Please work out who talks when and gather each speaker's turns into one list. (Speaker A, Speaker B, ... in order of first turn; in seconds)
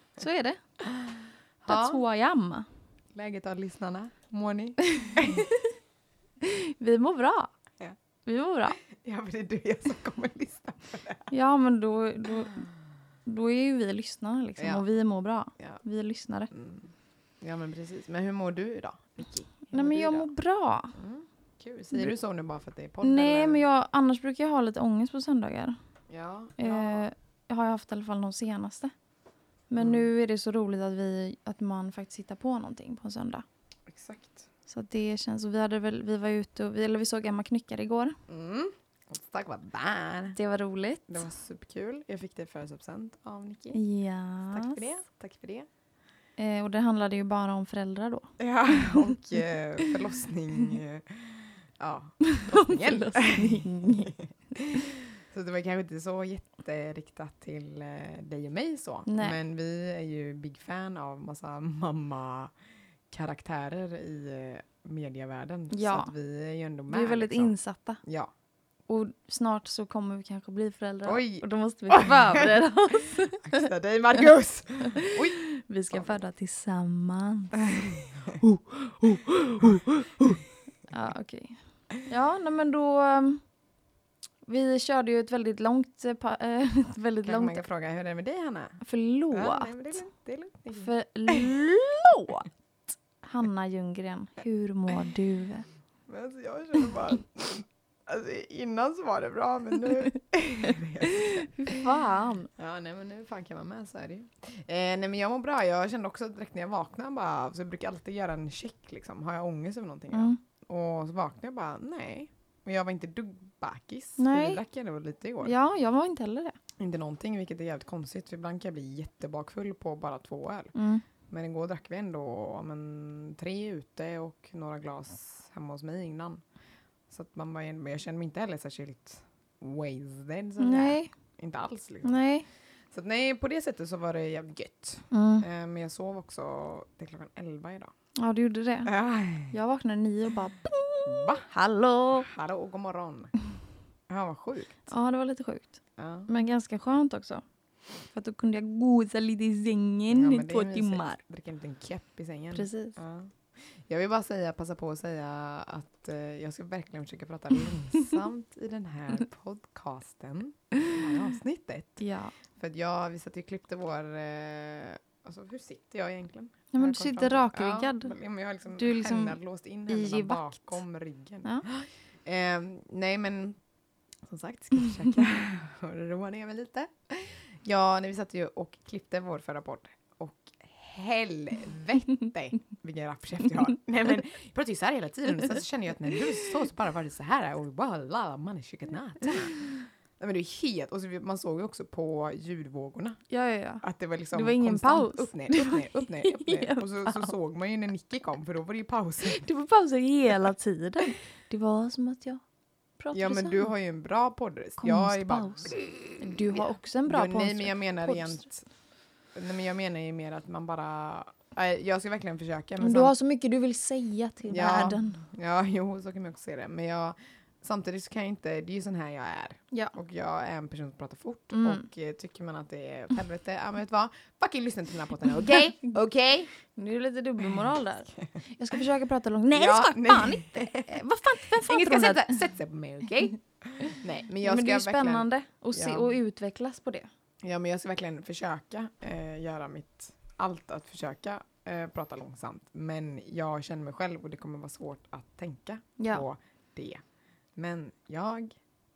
Speaker A: 0.2-0.6, 1.7-2.7, 4.8-5.7, 6.4-7.5, 8.2-8.8, 11.3-12.6, 13.2-16.5, 19.7-20.9, 23.0-25.8, 26.6-28.9, 29.7-33.4, 34.7-38.2, 40.4-41.2, 43.7-44.8, 46.4-50.0, 52.2-54.1, 59.1-59.4, 65.7-66.1, 66.9-68.0, 68.9-73.7, 74.8-83.4, 84.5-87.6, 88.8-90.0, 90.7-92.5, 93.2-95.7, 101.6-102.5, 110.1-110.4, 114.2-114.6, 115.4-116.5, 120.7-121.0, 130.6-131.1, 132.0-132.4, 135.1-135.4, 138.2-138.9, 139.5-142.3, 144.9-147.4, 148.1-151.2, 152.5-153.0, 162.0-162.3, 166.7-168.1, 168.7-170.8, 193.3-197.3, 199.2-202.4, 203.0-203.7, 204.8-208.4, 212.8-215.2, 221.5-221.8, 226.7-232.5, 234.4-237.1, 246.0-246.2
Speaker B: 0.8-2.0, 3.1-5.5, 8.8-11.3, 14.6-14.8, 16.5-20.3, 20.9-23.6, 26.1-27.0, 29.8-30.1, 33.9-34.5, 38.3-40.4, 41.1-43.8, 44.5-45.7, 48.4-62.5, 63.1-68.3, 71.0-72.5, 73.4-76.2, 77.5-78.4, 79.6-80.3, 87.2-91.5, 96.1-101.9, 102.5-115.5, 116.8-120.7, 121.3-126.4, 127.1-132.2, 132.9-137.9, 138.8-139.5, 141.1-141.5, 142.1-143.3, 144.1-144.9, 146.0-146.3, 150.1-162.0, 162.6-173.6, 174.2-189.6, 190.2-193.2, 193.8-199.4, 203.1-208.7, 209.3-213.1, 214.5-226.5, 229.5-236.2, 237.4-247.0, 247.6-248.6